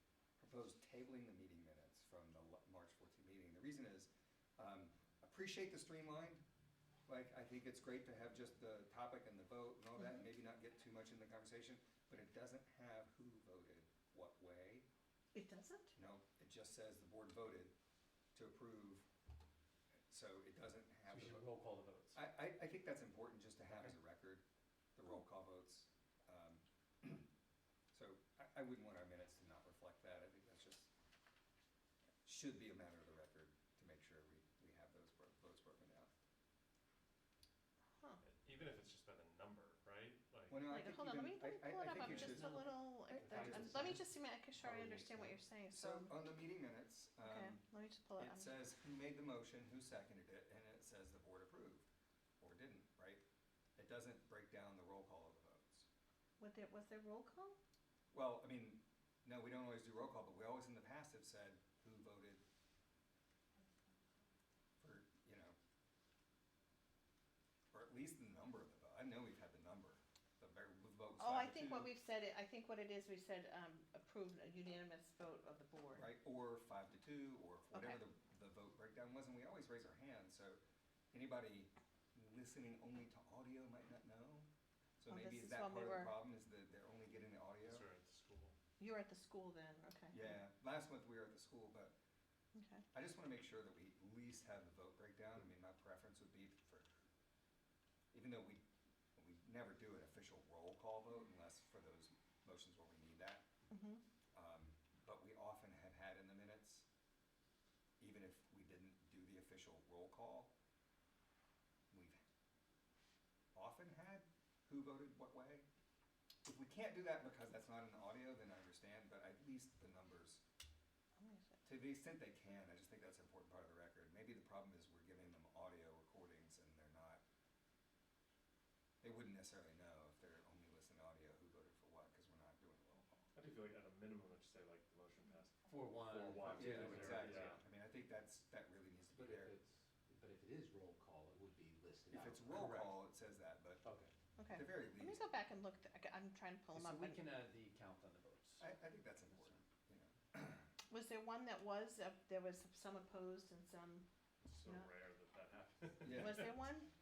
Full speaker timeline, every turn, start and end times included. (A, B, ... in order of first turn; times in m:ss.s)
0:00.4-0:06.4 A
0:07.1-0:14.8 A
0:15.3-0:15.9 B
0:16.0-0:17.7 A
0:18.3-0:19.0 A
0:20.1-0:21.4 A
0:21.1-0:22.2 C
0:22.1-0:24.4 A
0:25.0-0:27.3 A
0:27.9-0:30.9 A
0:32.2-0:36.1 A
0:38.2-0:40.6 D
0:40.5-0:44.0 A
0:40.6-0:46.2 B
0:42.0-0:45.3 E
0:45.7-0:47.6 A
0:47.2-0:48.5 B
0:48.2-0:51.9 A
0:52.4-0:53.2 A
0:53.8-0:55.9 A
0:56.4-0:57.6 B
0:58.1-1:02.4 A
1:04.8-1:05.5 A
1:07.7-1:11.9 A
1:11.2-1:16.1 B
1:15.9-1:20.6 A
1:21.1-1:24.5 A
1:25.0-1:27.8 A
1:25.1-1:26.2 B
1:27.6-1:28.5 D
1:28.8-1:30.4 B
1:30.1-1:31.9 A
1:32.5-1:32.8 B
1:32.9-1:37.0 A
1:38.1-1:38.6 A
1:39.2-1:43.4 A
1:43.7-1:44.0 B
1:44.3-1:46.8 A
1:48.0-1:50.5 A
1:51.9-1:52.2 A
1:53.5-1:55.6 A
1:56.4-2:00.4 A
2:01.2-2:01.6 B
2:01.6-2:07.2 A
2:09.0-2:13.3 A
2:13.3-2:17.6 D
2:15.7-2:17.6 C
2:16.5-2:19.6 A
2:16.6-2:17.2 E
2:19.1-2:22.9 E
2:22.1-2:23.8 A
2:22.6-2:22.9 C
2:23.8-2:24.1 E
2:24.4-2:27.2 B
2:24.5-2:25.2 A
2:26.7-2:28.7 C
2:28.6-2:30.7 A
2:29.3-2:29.6 C
2:30.9-2:34.1 B
2:34.4-2:36.5 D
2:34.6-2:34.9 B
2:36.0-2:36.6 A
2:36.1-2:36.9 B